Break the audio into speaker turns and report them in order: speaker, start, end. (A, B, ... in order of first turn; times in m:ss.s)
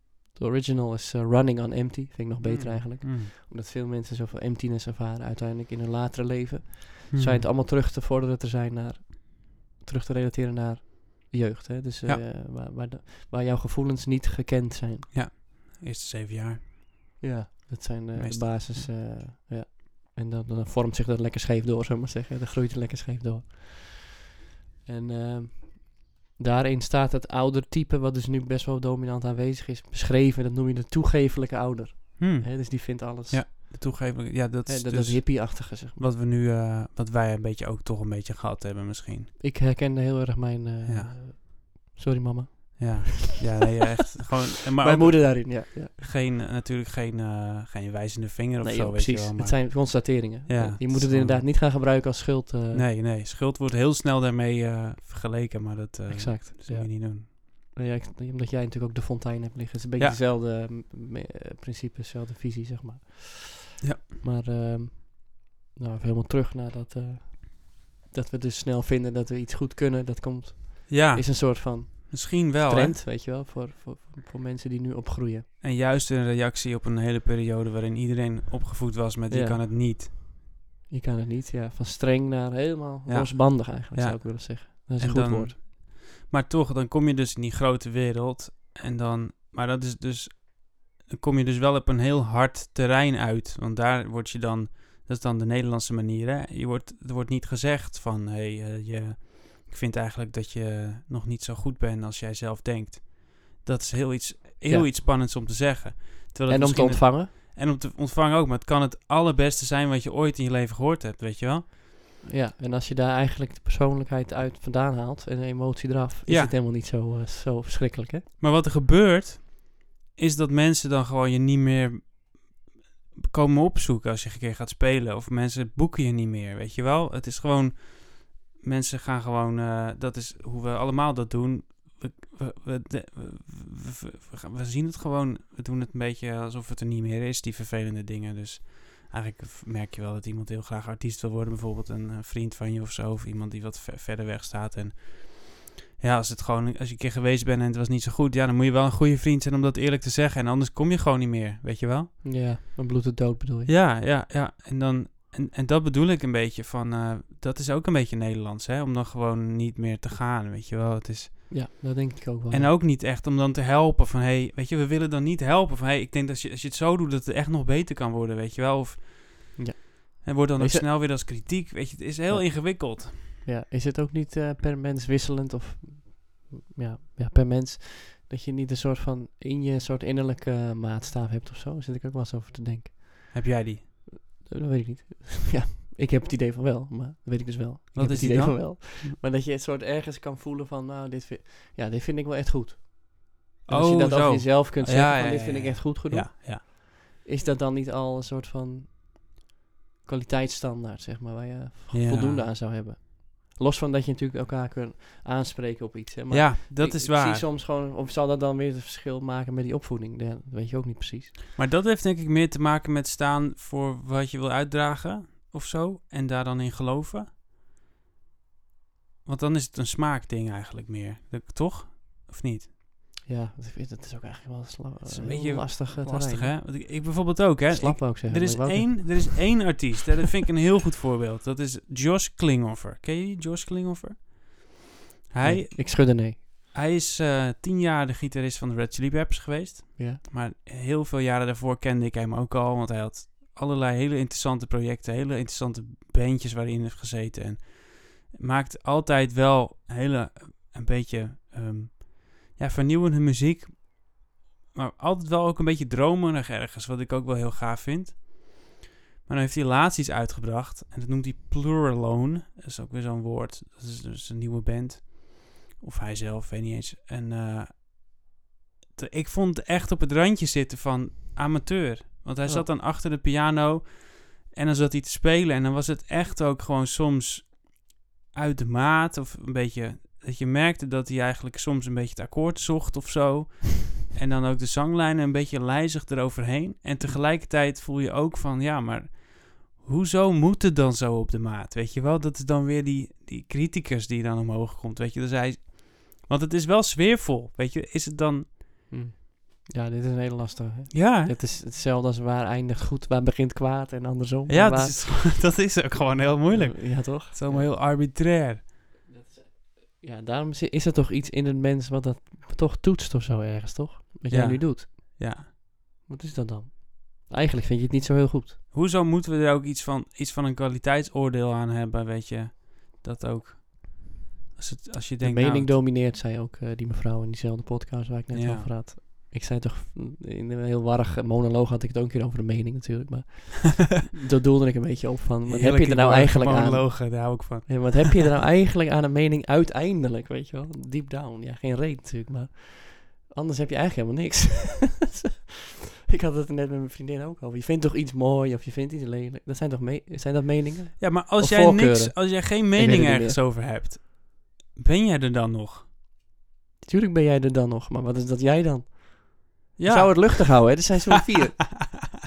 0:00.4-0:15.1 A
0:02.4-0:03.3 B
0:07.1-0:07.5 B
0:15.1-0:16.7 B
0:17.2-0:24.2 A
0:18.1-0:18.9 B
0:24.9-0:33.6 A
0:32.2-0:39.3 B
0:34.7-0:36.0 A
0:39.4-0:43.4 A
0:40.8-0:41.2 B
0:42.8-0:51.5 B
0:44.8-0:46.0 A
0:48.6-0:52.9 A
0:52.7-0:57.3 B
0:56.1-1:15.5 A
1:10.9-1:13.0 B
1:15.6-1:20.1 B
1:19.3-1:19.6 A
1:20.9-1:25.6 A
1:23.1-1:51.7 B
1:44.6-1:44.9 A
1:46.5-1:47.3 A
1:52.2-1:58.3 A
1:56.3-1:56.5 B
1:58.4-2:32.2 B
2:32.2-2:33.7 A
2:33.7-2:41.7 B
2:41.5-2:42.7 A
2:42.5-2:49.6 B
2:49.6-2:50.8 A
2:50.2-2:53.3 B
2:52.3-3:03.4 A
3:03.3-3:03.9 B
3:04.1-3:19.3 A
3:08.0-3:09.2 B
3:13.7-3:16.6 B
3:20.0-3:31.3 A
3:21.9-3:22.4 B
3:26.3-3:27.4 B
3:31.6-3:37.3 B
3:39.2-3:42.7 B
3:43.3-3:47.1 A
3:45.0-3:54.8 B
3:47.7-3:49.7 A
3:55.3-4:27.9 B
3:55.4-3:56.4 A
4:29.0-4:58.9 B
4:58.9-5:05.0 A
5:00.9-5:01.3 B
5:04.5-5:08.6 B
5:06.5-5:07.7 A
5:09.1-5:15.5 A
5:14.3-5:15.5 B
5:16.1-5:18.6 A
5:18.7-5:25.8 B
5:25.2-5:45.3 A
5:28.3-5:28.7 B
5:35.4-5:38.2 B
5:46.1-5:53.4 A
5:51.0-5:55.9 B
5:56.8-6:02.0 A
5:59.8-6:00.9 B